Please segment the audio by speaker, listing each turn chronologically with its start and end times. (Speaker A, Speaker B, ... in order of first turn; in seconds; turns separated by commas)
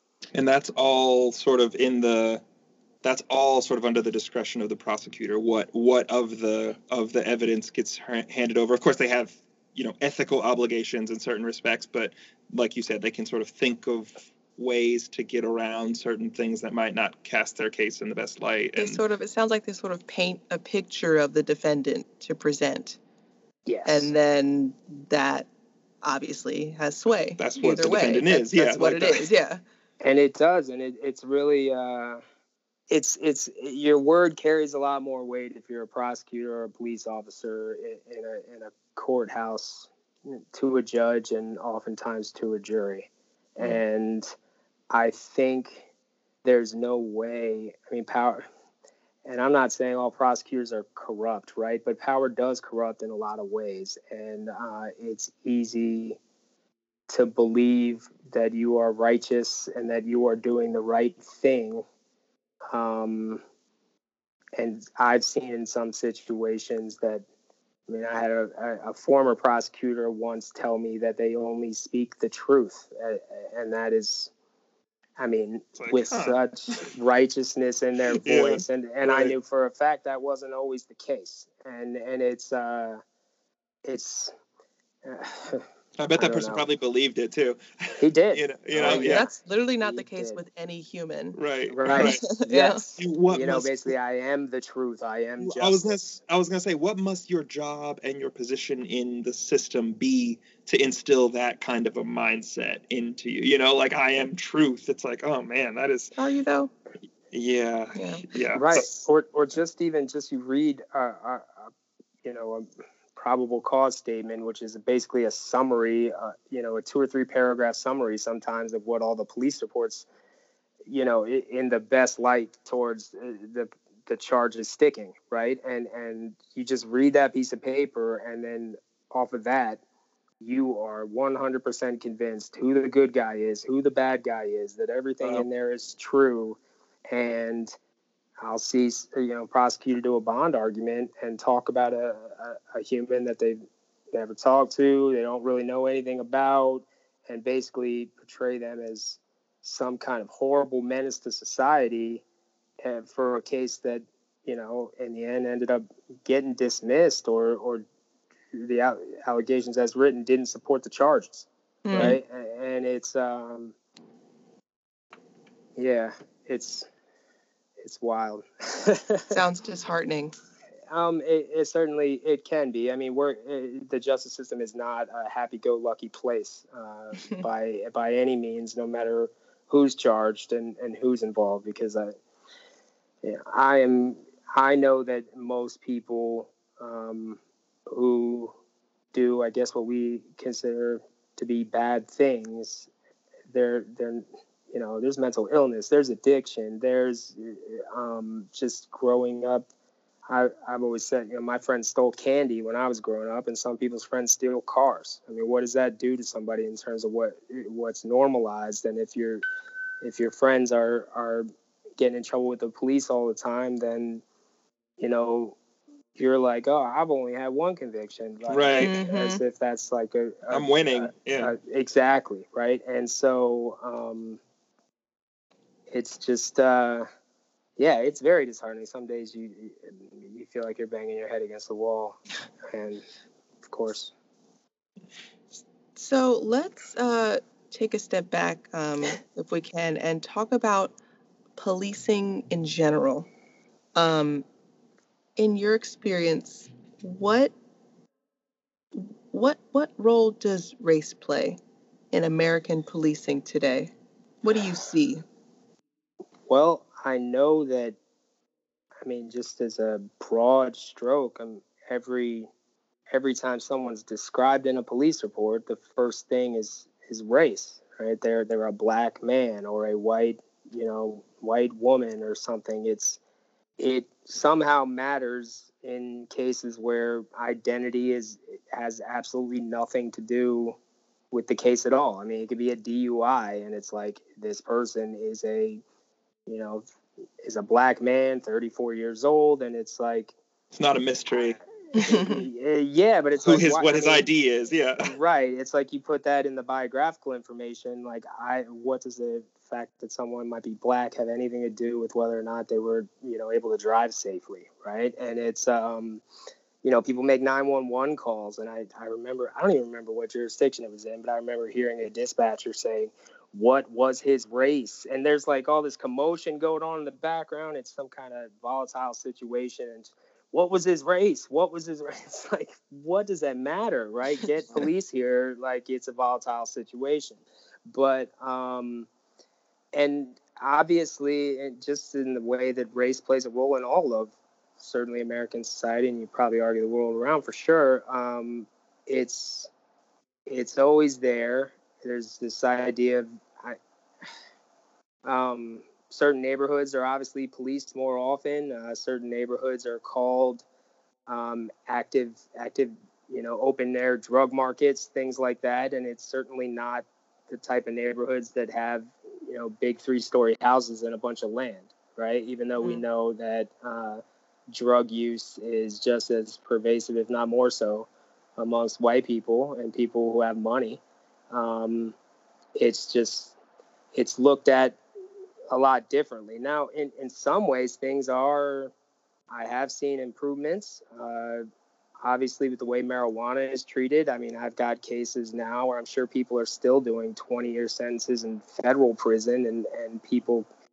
Speaker A: 0.3-2.4, Speaker A: 3.0-19.0, Speaker B: 18.8-23.0, Speaker C: 23.6-24.1, Speaker B: 23.9-25.5, Speaker B: 26.0-29.6, Speaker A: 27.4-29.3, Speaker C: 30.0-32.2, Speaker C: 32.9-44.3, Speaker C: 44.9-45.9, Speaker C: 46.4-48.4, Speaker C: 49.2-56.2, Speaker C: 57.1-61.8, Speaker C: 62.7-63.4, Speaker C: 64.6-67.2, Speaker C: 67.9-74.3, Speaker C: 75.2-83.0, Speaker A: 75.8-76.3, Speaker A: 78.2-79.3, Speaker C: 83.8-84.3, Speaker C: 85.0-86.6, Speaker A: 86.0-89.3, Speaker C: 88.0-89.3, Speaker B: 88.8-91.4, Speaker C: 89.8-90.4, Speaker A: 91.3-92.2, Speaker C: 91.7-95.9, Speaker B: 92.0-92.8, Speaker A: 93.0-93.9, Speaker A: 95.4-106.1, Speaker B: 106.2-106.7, Speaker A: 107.3-108.8, Speaker B: 107.9-108.2, Speaker C: 108.5-111.7, Speaker C: 112.2-120.0, Speaker C: 120.9-129.8, Speaker C: 130.4-136.6, Speaker C: 137.1-137.7, Speaker C: 138.4-143.6, Speaker C: 144.1-152.2, Speaker C: 152.8-157.8, Speaker C: 158.5-163.7, Speaker B: 161.8-162.2, Speaker C: 165.8-166.9, Speaker C: 167.8-169.4, Speaker B: 169.3-170.3, Speaker C: 170.9-182.1, Speaker C: 183.2-188.5, Speaker C: 189.1-192.9, Speaker C: 193.5-199.7, Speaker C: 200.3-209.4, Speaker C: 210.0-214.2, Speaker C: 215.0-215.6, Speaker C: 216.2-224.4, Speaker A: 218.5-218.9, Speaker B: 218.8-219.4, Speaker A: 220.5-221.5, Speaker C: 225.9-227.1, Speaker C: 227.8-232.2, Speaker C: 232.7-233.0, Speaker C: 233.7-234.1, Speaker B: 235.9-240.9, Speaker B: 241.6-243.3, Speaker B: 243.9-244.4, Speaker B: 245.4-247.5, Speaker B: 248.9-251.6, Speaker B: 252.1-253.9, Speaker B: 254.4-255.2, Speaker C: 256.5-258.0, Speaker C: 259.0-262.5, Speaker C: 263.1-273.2, Speaker C: 273.8-280.8, Speaker C: 281.3-285.8, Speaker C: 286.5-286.9, Speaker C: 287.4-290.3, Speaker A: 290.7-291.6, Speaker C: 291.3-294.3, Speaker B: 291.9-292.4, Speaker A: 293.4-295.1, Speaker C: 295.0-306.2, Speaker C: 306.8-329.1, Speaker C: 329.9-339.7, Speaker C: 340.5-343.8, Speaker C: 345.2-350.6, Speaker C: 351.3-372.1, Speaker C: 372.8-373.6, Speaker C: 374.1-375.0, Speaker C: 375.7-378.9, Speaker C: 379.5-381.6, Speaker C: 382.2-390.7